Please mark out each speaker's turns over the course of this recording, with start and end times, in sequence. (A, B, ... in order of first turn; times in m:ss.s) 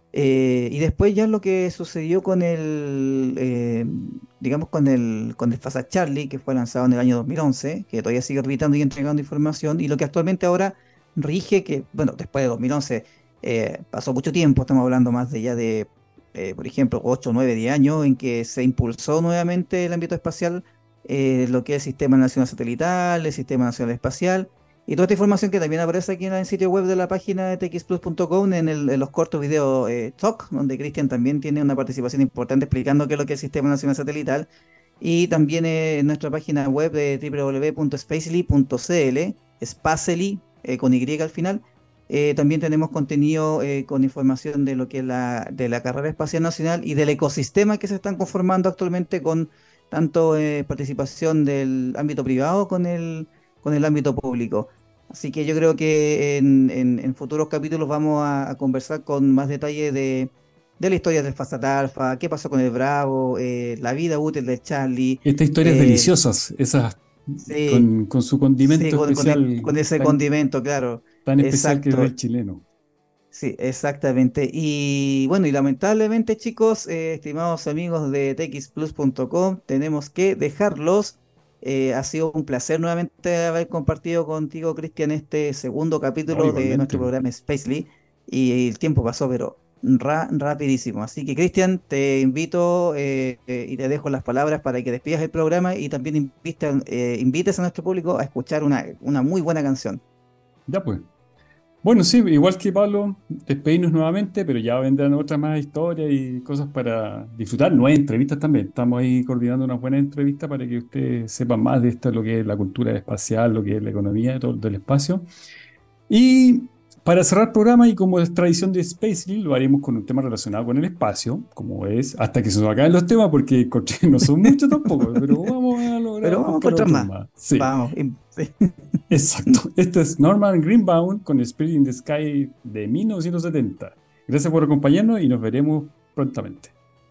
0:00.1-0:34.5 A
0:35.0-1:06.1 A
1:05.2-1:10.2 B
1:07.4-1:07.8 A
1:08.6-1:12.1 A
1:11.2-1:12.6 B
1:13.3-1:40.0 A
1:26.3-1:27.1 B
1:40.7-1:41.0 B
1:41.8-1:55.2 B
1:56.1-2:07.7 B
2:06.2-2:08.7 A
2:09.1-2:16.7 B